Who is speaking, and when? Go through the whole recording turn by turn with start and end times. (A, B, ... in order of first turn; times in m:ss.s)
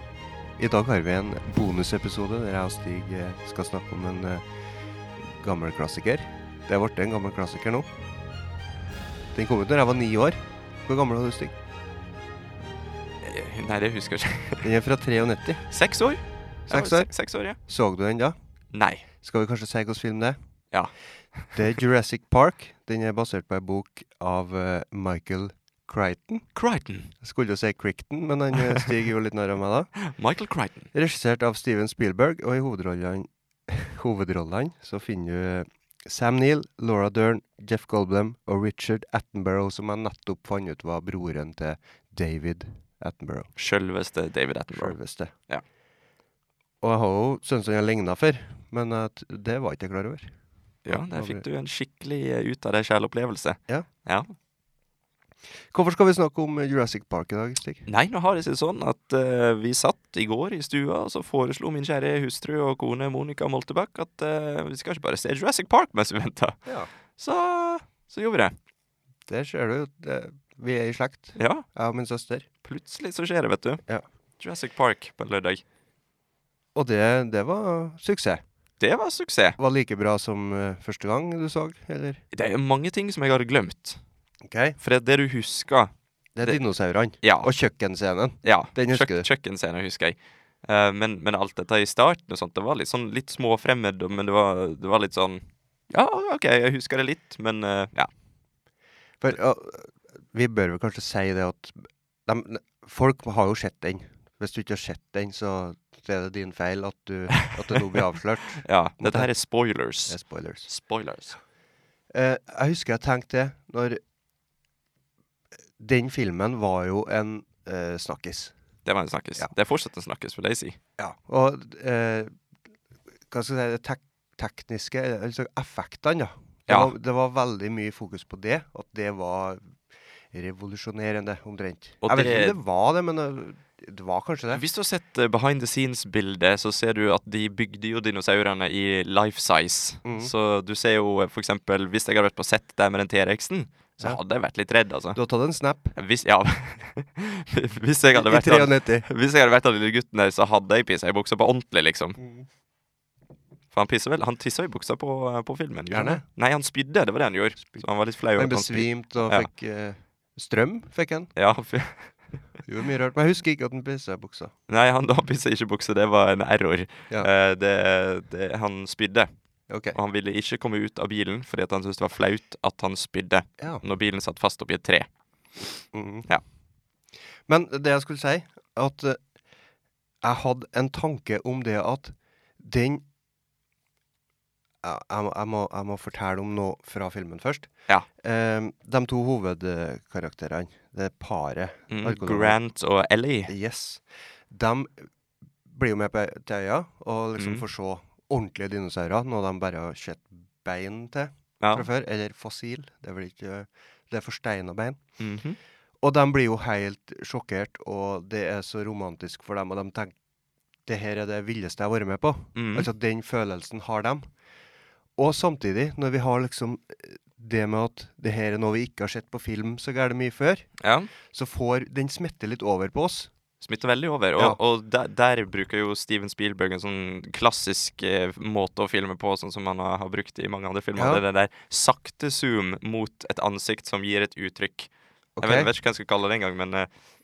0:00.6-0:04.4 A
0:05.2-0:07.9 A
0:09.3-0:11.6 A
0:13.2-0:14.7 B
0:14.6-0:15.6 A
0:15.7-0:17.6 B
0:16.7-0:17.1 A
0:17.7-0:18.4 A
0:18.7-0:19.1 B
0:19.2-0:20.4 A
0:20.7-0:21.6 B
0:21.6-0:26.5 A
0:26.6-0:27.1 B
0:27.2-0:29.9 A
0:30.0-0:30.9 B
0:30.9-0:43.5 A
0:43.6-0:45.0 B
0:44.7-0:45.3 A
0:46.8-0:50.3 A
0:50.8-0:54.3 B
0:50.9-0:51.4 A
0:55.7-0:57.8 A
0:57.9-1:08.6 B
1:09.3-1:12.5 A
1:11.4-1:11.6 B
1:12.6-1:13.8 B
1:14.4-1:15.6 B
1:16.8-1:18.4 A
1:18.8-1:19.6 B
1:19.6-1:22.2 A
1:22.3-1:24.0 B
1:24.4-1:24.8 A
1:24.8-1:25.9 B
1:26.4-1:29.3 A
1:27.2-1:27.5 B
1:28.4-1:38.1 B
1:39.2-1:49.3 A
1:47.3-1:47.8 B
1:48.6-1:51.4 B
1:50.1-1:50.7 A
1:52.1-1:54.0 A
1:55.8-1:58.5 A
1:58.9-2:00.8 B
2:01.0-2:02.3 A
2:03.3-2:09.6 A
2:10.3-2:14.6 A
2:12.0-2:12.6 B
2:14.5-2:25.2 B
2:20.0-2:20.3 A
2:25.2-2:25.9 A
2:26.0-2:32.2 B
2:28.1-2:29.1 A
2:32.2-2:32.5 A
2:33.7-2:39.5 B
2:35.9-2:36.2 A
2:38.4-2:41.3 A
2:41.4-2:42.3 B
2:42.6-2:44.5 A
2:44.7-2:49.3 B
2:49.7-2:50.0 A
2:49.9-2:56.4 B
2:55.9-2:56.3 A
2:57.5-2:59.2 A
3:00.2-3:03.0 A
3:04.8-3:12.6 A
3:11.9-3:13.5 B
3:13.5-3:15.0 A
3:15.7-3:25.0 A
3:17.4-3:17.6 B
3:21.6-3:21.9 B
3:25.2-3:25.6 B
3:26.0-3:30.1 A
3:30.9-3:34.3 A
3:32.6-3:32.9 B
3:35.2-3:40.7 A
3:40.8-3:41.1 B
3:41.2-3:43.3 A
3:43.6-3:54.9 B
3:51.0-3:51.2 A
3:55.4-3:55.7 A
3:55.4-3:56.9 B